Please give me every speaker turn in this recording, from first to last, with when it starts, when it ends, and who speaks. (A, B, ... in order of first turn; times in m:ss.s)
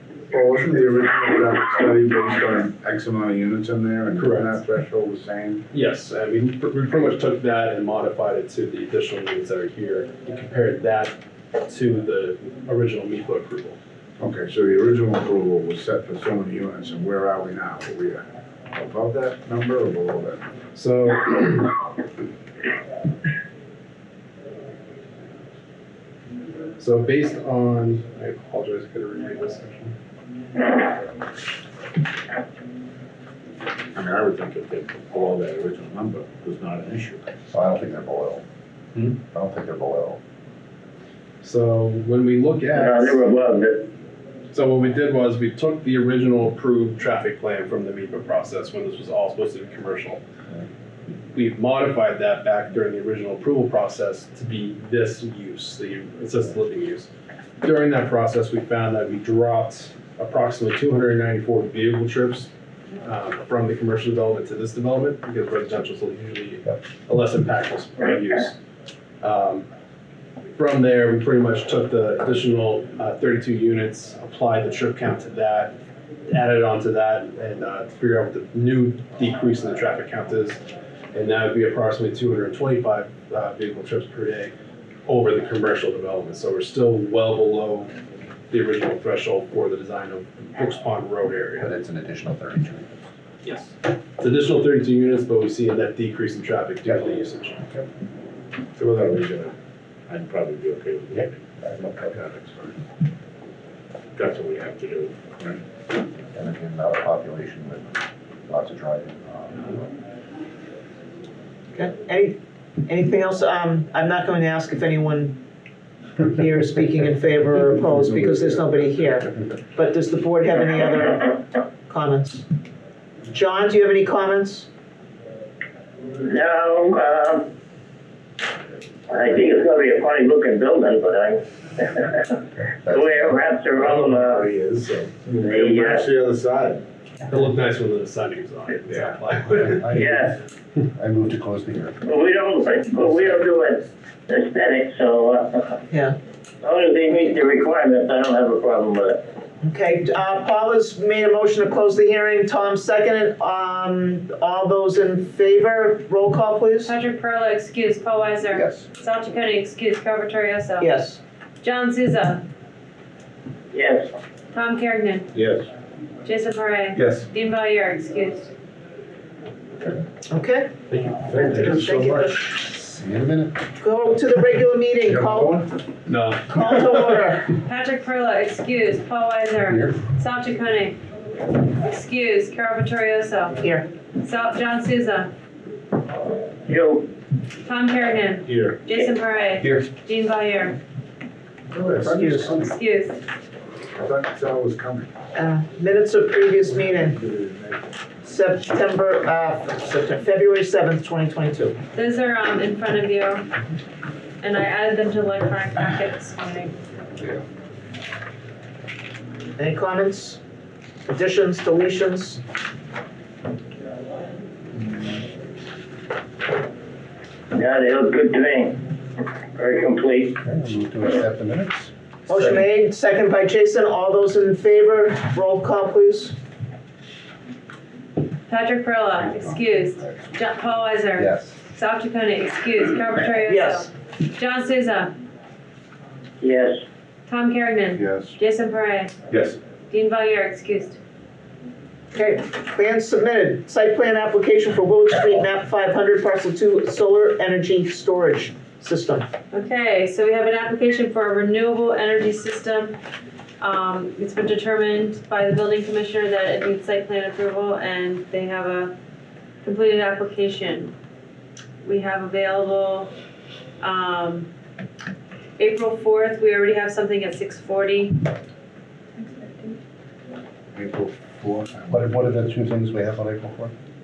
0:00.3-0:05.6 A
0:04.2-0:04.6 B
0:05.7-0:13.8 B
0:14.2-0:20.4 A
0:20.7-0:21.7 B
0:26.8-0:29.9 B
0:33.9-0:37.3 A
0:37.5-0:38.4 C
0:39.1-0:40.2 C
0:41.4-0:43.2 B
0:42.7-0:43.8 D
0:44.5-0:50.2 B
0:51.3-0:57.1 B
0:57.6-1:02.5 B
1:03.0-1:08.6 B
1:09.2-1:09.6 B
1:10.5-1:15.7 B
1:16.3-1:20.6 B
1:21.1-1:24.5 B
1:25.1-1:27.9 B
1:28.5-1:31.7 B
1:31.6-1:33.0 C
1:33.4-1:37.6 B
1:38.7-1:39.5 A
1:40.1-1:42.8 A
1:41.6-1:41.9 C
1:44.1-1:45.6 A
1:46.3-1:49.8 C
1:51.7-1:55.4 E
1:56.2-2:02.4 E
2:03.3-2:04.7 E
2:06.2-2:07.5 D
2:09.1-2:12.1 D
2:12.8-2:13.4 C
2:12.9-2:14.4 D
2:13.7-2:16.8 A
2:15.4-2:16.0 D
2:17.2-2:19.8 B
2:18.9-2:19.1 A
2:19.5-2:20.3 C
2:19.9-2:20.3 D
2:20.9-2:22.0 C
2:22.0-2:25.8 D
2:25.9-2:26.2 E
2:26.6-2:29.2 D
2:29.6-2:36.9 E
2:36.8-2:40.9 F
2:38.5-2:38.9 C
2:40.8-2:41.2 E
2:41.6-2:42.4 F
2:43.7-2:44.1 D
2:44.5-2:45.3 F
2:45.3-2:45.7 A
2:46.2-2:48.5 F
2:50.3-2:52.6 E
2:50.9-2:52.3 B
2:52.6-2:53.6 C
2:53.8-2:55.6 E
2:55.1-2:55.6 A
2:56.1-2:57.2 B
2:56.5-2:57.5 E
2:57.6-3:01.0 F
2:59.7-3:00.0 C
3:01.5-3:03.6 F
3:03.6-3:03.8 E
3:04.2-3:05.3 F
3:06.7-3:07.1 D
3:07.6-3:10.8 F
3:08.5-3:08.8 A
3:11.7-3:12.7 A
3:12.0-3:12.6 E
3:12.6-3:13.2 F
3:13.9-3:15.1 A
3:15.3-3:17.2 E
3:16.7-3:17.9 A
3:18.2-3:21.8 E
3:21.9-3:23.5 F
3:24.4-3:26.7 F
3:29.6-3:30.4 E
3:31.1-3:32.4 E
3:37.5-3:38.8 D
3:39.5-3:40.4 D
3:40.4-3:41.9 C
3:42.3-3:46.3 E
3:48.5-3:55.1 F
3:49.2-3:50.4 C
3:51.2-3:51.5 C
3:53.4-3:53.9 E
3:56.4-3:56.8 D
3:57.3-3:59.1 F
3:58.0-3:58.4 A
3:59.9-4:01.0 F
4:02.1-4:09.3 E
4:09.5-4:13.0 F
4:13.6-4:18.9 F
4:19.6-4:20.9 F
4:21.8-4:23.1 F
4:23.8-4:24.5 F
4:25.6-4:28.2 F
4:29.2-4:29.7 F
4:30.7-4:32.2 A
4:31.9-4:33.7 C